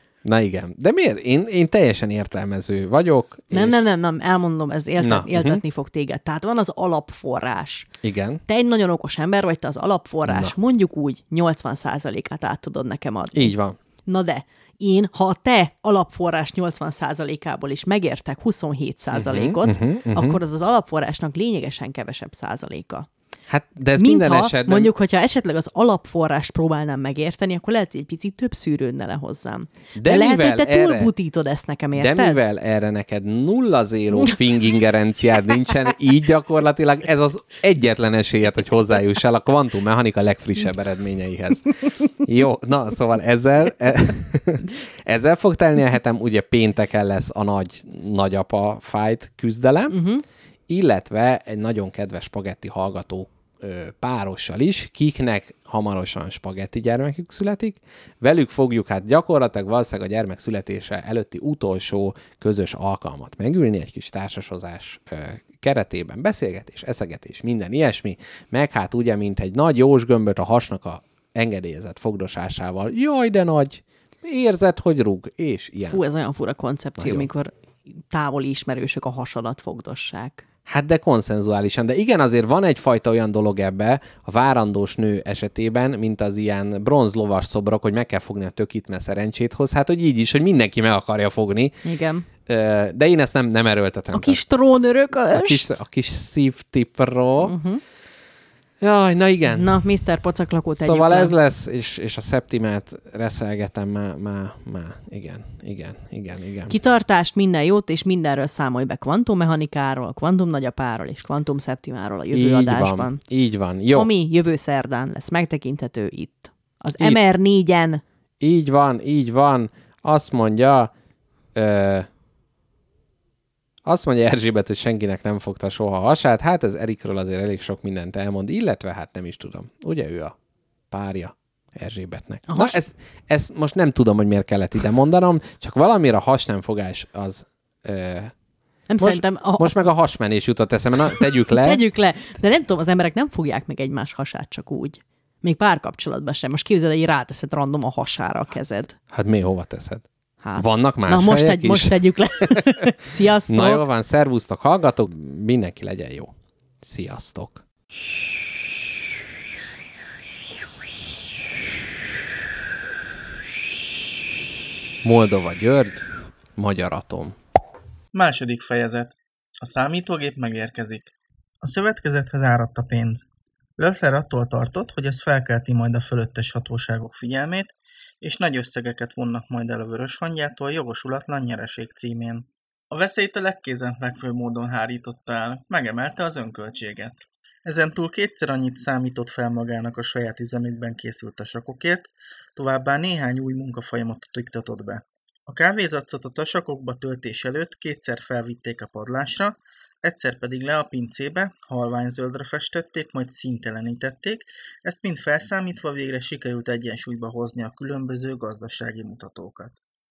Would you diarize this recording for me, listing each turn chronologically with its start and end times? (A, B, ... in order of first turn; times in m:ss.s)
0:00.2-0:03.8 A
0:03.5-0:07.9 B
0:05.0-0:05.6 A
0:08.0-0:08.4 A
0:08.5-0:23.1 B
0:10.2-0:10.5 A
0:13.3-0:13.8 A
0:19.1-0:20.4 A
0:23.5-0:24.9 A
0:24.0-0:32.4 B
0:30.0-0:31.1 A
0:32.0-0:50.0 A
0:49.9-0:50.2 B
0:50.7-1:16.0 A
1:15.9-1:17.5 B
1:17.0-1:17.3 A
1:18.1-1:20.4 B
1:20.7-1:31.8 A
1:31.8-1:32.3 B
1:32.4-1:34.4 A
1:34.1-1:35.8 B
1:35.3-1:37.5 A
1:37.4-1:37.8 B
1:38.8-1:39.8 A
1:39.5-1:41.3 B
1:40.8-1:46.7 A
1:46.7-1:53.2 B
1:52.3-1:54.1 A
1:53.9-1:58.0 B
1:58.4-2:00.9 A
2:01.6-2:02.1 A
2:03.8-2:10.4 A
2:10.9-2:18.3 A
2:12.5-2:12.8 B
2:18.9-2:19.8 B
2:19.0-2:21.8 A
2:21.4-2:29.0 B
2:29.1-2:30.0 A
2:30.4-2:33.8 B
2:30.6-2:32.7 A
2:33.5-2:37.6 A
2:45.0-2:47.4 A
2:48.1-2:53.3 C
2:53.8-3:29.8 C